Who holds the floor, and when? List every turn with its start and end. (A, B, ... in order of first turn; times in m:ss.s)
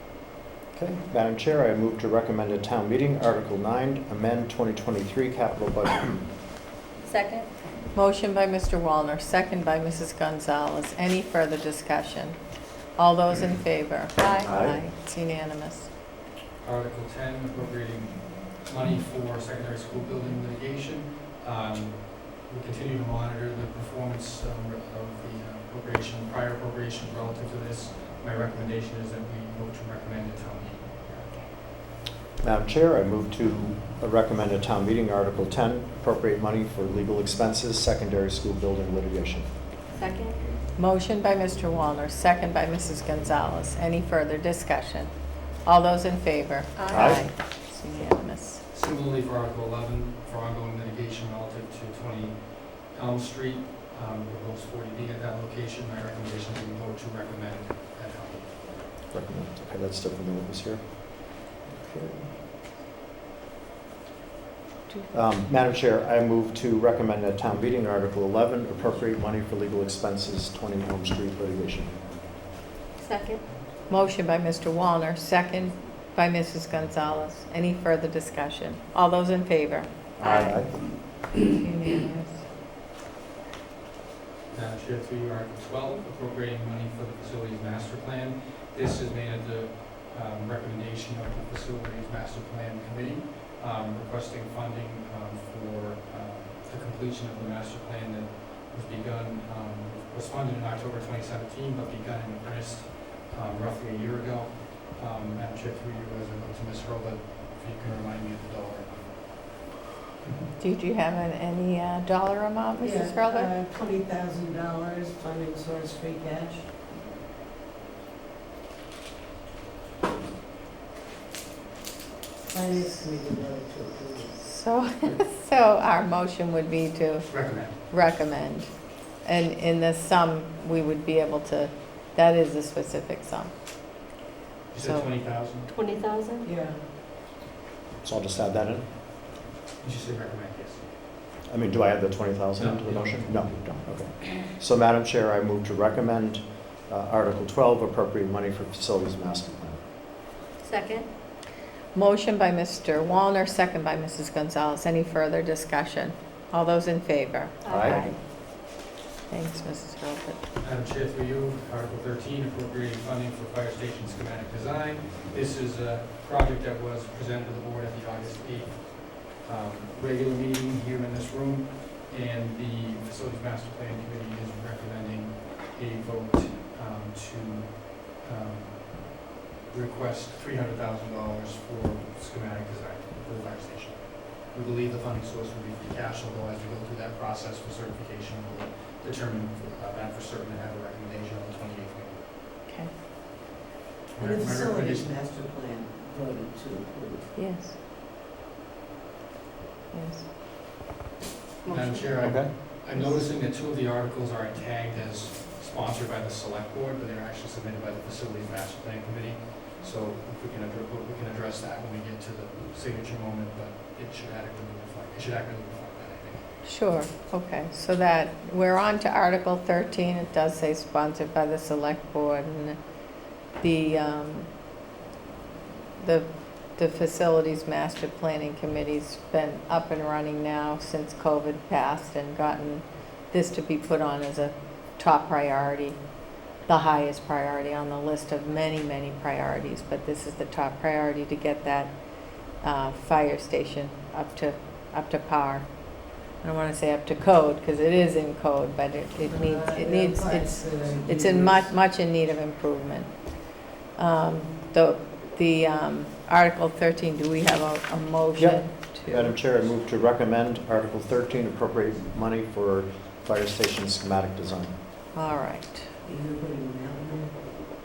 0:00.7-0:06.3 A
0:07.0-0:07.5 B
0:07.9-0:12.4 C
0:12.9-0:15.9 C
0:14.2-0:14.5 B
0:14.4-0:14.8 A
0:16.6-0:31.3 D
0:32.4-0:39.5 A
0:39.9-0:40.4 B
0:40.8-0:48.6 C
0:46.8-0:47.2 B
0:46.9-0:47.2 A
0:48.7-0:58.9 D
0:59.1-1:00.8 A
1:01.9-1:02.2 A
1:05.1-1:11.9 A
1:13.0-1:13.4 B
1:13.9-1:20.4 C
1:20.2-1:20.8 A
1:21.5-1:22.5 C
1:24.5-1:49.6 D
1:50.2-1:50.5 D
1:50.6-1:53.5 C
1:52.8-1:56.7 E
2:02.5-2:04.4 E
2:04.4-2:08.7 C
2:07.3-2:07.8 D
2:09.2-2:13.5 C
2:14.7-2:15.7 D
2:14.8-2:15.4 C
2:15.7-2:16.5 B
2:16.4-2:16.8 E
2:18.0-2:18.8 A
2:19.8-2:20.9 D
2:21.5-2:29.8 A
2:22.6-2:23.5 D
2:30.6-2:31.1 B
2:31.9-2:38.7 C
2:37.6-2:38.2 B
2:37.7-2:38.1 A
2:39.3-2:40.4 C
2:40.6-3:12.2 D
3:14.1-3:15.1 D
3:14.2-3:17.3 E
3:17.4-3:17.8 C
3:19.9-3:20.3 C
3:21.6-3:22.2 B
3:21.7-3:36.5 D
3:22.2-3:22.5 A
3:36.6-3:42.8 C
3:43.6-3:44.5 C
3:46.0-3:56.0 C
3:56.6-4:02.0 C
4:02.5-4:19.3 C
4:09.2-4:11.7 E
4:18.4-4:24.8 A
4:25.1-4:25.9 C
4:26.0-4:27.3 E